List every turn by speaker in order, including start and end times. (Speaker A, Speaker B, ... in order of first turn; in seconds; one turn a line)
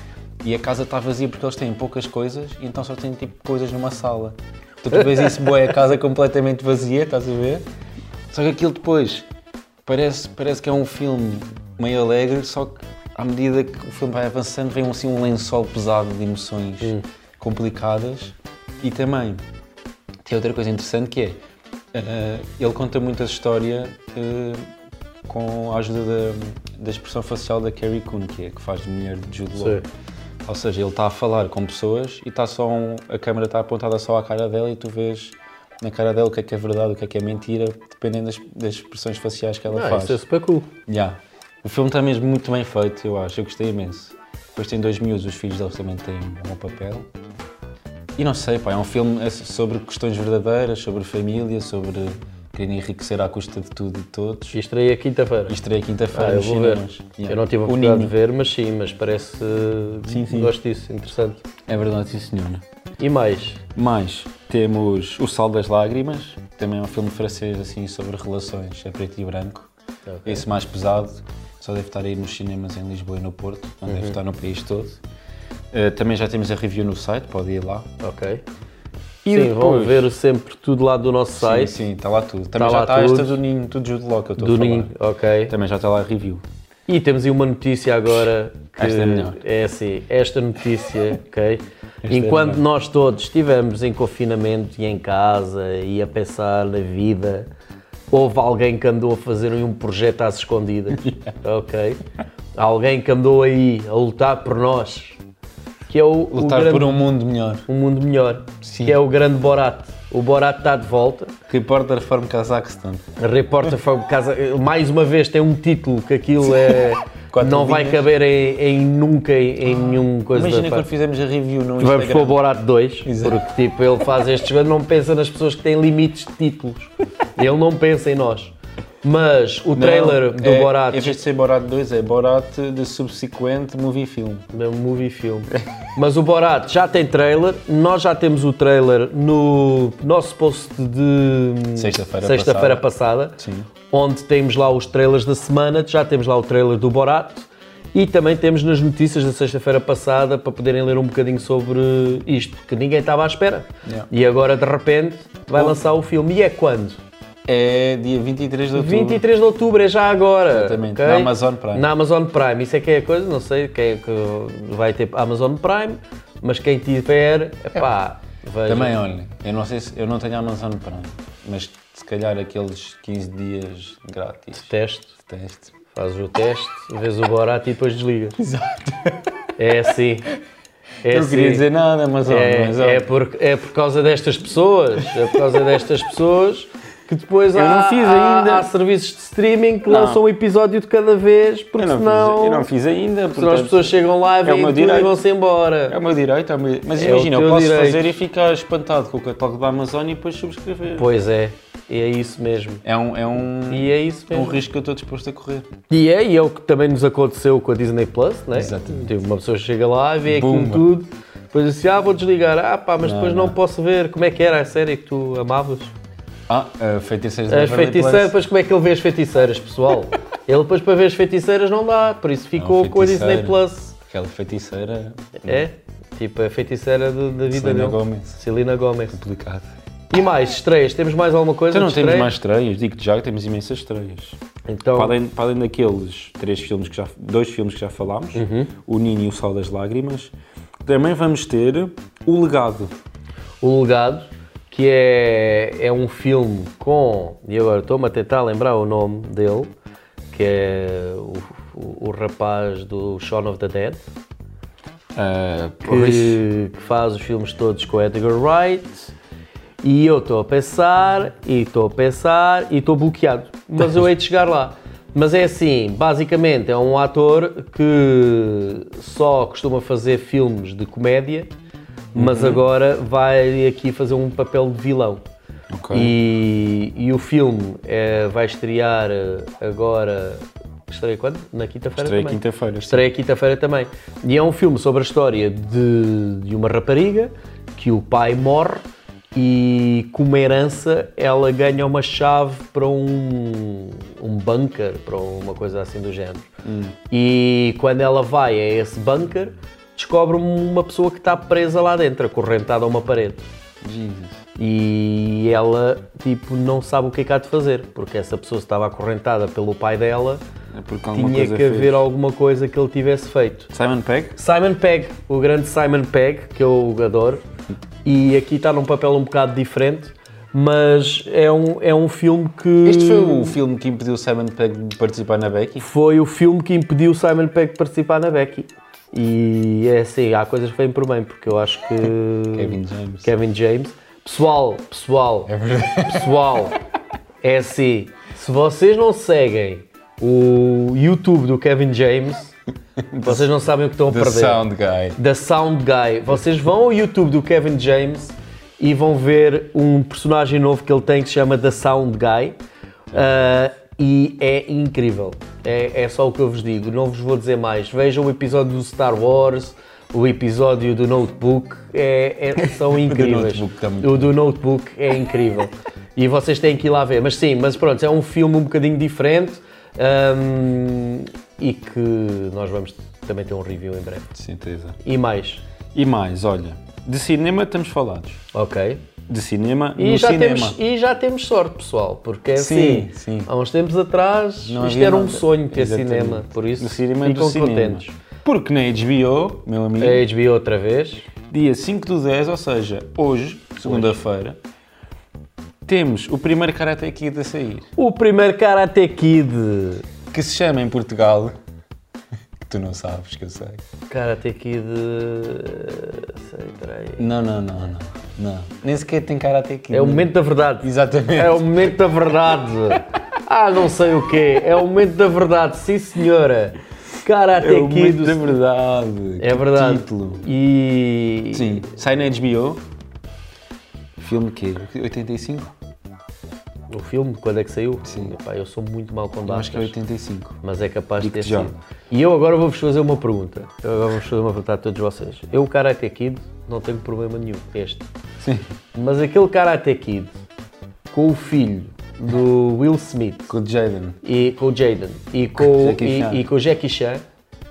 Speaker A: 0.4-7.6
Speaker A: 8.3-9.3
Speaker A: 9.8-19.4
Speaker A: 20.2-21.4
Speaker A: 21.9-24.7
Speaker A: 25.3-29.8
Speaker B: 29.6-29.8
Speaker A: 30.4-40.2
Speaker B: 39.7-40.7
Speaker A: 40.9-47.1
Speaker A: 48.2-54.6
Speaker B: 54.5-55.6
Speaker A: 55.5-58.1
Speaker B: 56.1-61.5
Speaker A: 60.1-60.5
Speaker A: 61.7-62.6
Speaker B: 63.0-63.6
Speaker A: 63.8-69.7
Speaker B: 70.1-70.5
Speaker A: 70.3-75.0
Speaker B: 73.9-74.2
Speaker A: 75.7-77.9
Speaker B: 78.0-78.4
Speaker A: 79.2-80.1
Speaker B: 79.3-81.8
Speaker A: 81.4-84.9
Speaker B: 82.6-83.4
Speaker B: 84.4-85.5
Speaker A: 85.5-86.4
Speaker B: 86.9-97.5
Speaker A: 88.8-89.4
Speaker A: 92.0-92.6
Speaker B: 98.1-102.0
Speaker B: 102.6-105.2
Speaker B: 105.9-107.0
Speaker A: 106.3-107.7
Speaker B: 107.7-111.3
Speaker A: 108.6-109.0
Speaker A: 111.5-113.0
Speaker B: 113.2-120.9
Speaker A: 117.3-118.1
Speaker A: 119.7-122.4
Speaker B: 121.8-131.2
Speaker A: 123.0-123.5
Speaker A: 129.8-134.5
Speaker B: 134.5-143.4
Speaker A: 141.8-142.8
Speaker A: 143.4-143.7
Speaker B: 143.9-157.0
Speaker A: 157.5-159.2
Speaker B: 158.7-169.0
Speaker A: 160.5-161.9
Speaker A: 168.7-175.7
Speaker B: 174.6-175.1
Speaker B: 175.9-178.4
Speaker A: 178.4-179.2
Speaker B: 179.6-180.3
Speaker B: 181.0-181.7
Speaker A: 181.1-183.1
Speaker B: 182.2-192.7
Speaker A: 187.5-188.7
Speaker A: 189.9-190.2
Speaker A: 191.8-195.2
Speaker B: 193.3-196.0
Speaker A: 195.9-201.1
Speaker B: 197.0-198.1
Speaker B: 201.0-202.8
Speaker A: 202.8-205.7
Speaker B: 203.7-204.6
Speaker B: 205.9-215.9
Speaker A: 208.5-209.1
Speaker A: 210.3-210.9
Speaker A: 213.0-213.6
Speaker A: 216.5-218.3
Speaker B: 217.5-224.0
Speaker A: 222.6-225.7
Speaker B: 225.4-229.2
Speaker A: 227.5-228.4
Speaker A: 229.1-229.7
Speaker B: 230.1-232.3
Speaker A: 231.7-234.4
Speaker B: 234.7-235.2
Speaker A: 234.9-243.0
Speaker B: 238.3-238.7
Speaker B: 243.6-249.7
Speaker B: 250.3-254.0
Speaker A: 255.2-256.4
Speaker B: 255.8-259.1
Speaker B: 259.8-271.5
Speaker B: 272.1-275.2
Speaker A: 272.1-272.6
Speaker A: 275.7-276.2
Speaker B: 275.9-296.5
Speaker A: 282.0-283.1
Speaker A: 296.6-297.0
Speaker B: 297.1-303.5
Speaker A: 303.8-304.4
Speaker B: 304.6-310.4
Speaker A: 310.7-312.0
Speaker B: 311.1-313.7
Speaker A: 313.7-314.4
Speaker B: 314.4-317.4
Speaker B: 318.1-323.6
Speaker A: 322.8-325.9
Speaker B: 325.8-336.8
Speaker A: 332.5-333.3
Speaker A: 335.5-336.6
Speaker B: 337.4-342.5
Speaker A: 343.1-345.2
Speaker B: 343.2-344.6
Speaker B: 345.2-352.6
Speaker B: 353.1-374.3
Speaker A: 362.6-364.3
Speaker A: 374.4-375.0
Speaker B: 375.0-375.6
Speaker A: 375.9-378.4
Speaker B: 378.5-379.0
Speaker A: 379.3-380.8
Speaker B: 380.0-388.1
Speaker A: 382.6-383.5
Speaker A: 384.6-390.2
Speaker B: 390.0-391.3
Speaker A: 391.5-394.6
Speaker B: 393.9-394.1
Speaker A: 395.9-397.9
Speaker B: 398.0-400.1
Speaker A: 400.3-401.5
Speaker A: 402.6-403.8
Speaker B: 404.1-407.2
Speaker A: 407.2-412.0
Speaker B: 409.9-418.6
Speaker A: 417.6-420.4
Speaker B: 419.4-421.9
Speaker A: 421.5-422.8
Speaker A: 424.2-425.7
Speaker B: 426.9-429.9
Speaker A: 428.1-428.4
Speaker A: 429.5-430.6
Speaker B: 430.6-438.1
Speaker A: 431.2-431.7
Speaker A: 438.4-438.7
Speaker B: 438.9-440.3
Speaker B: 441.1-443.5
Speaker A: 443.5-444.2
Speaker B: 444.2-447.2
Speaker A: 445.6-446.5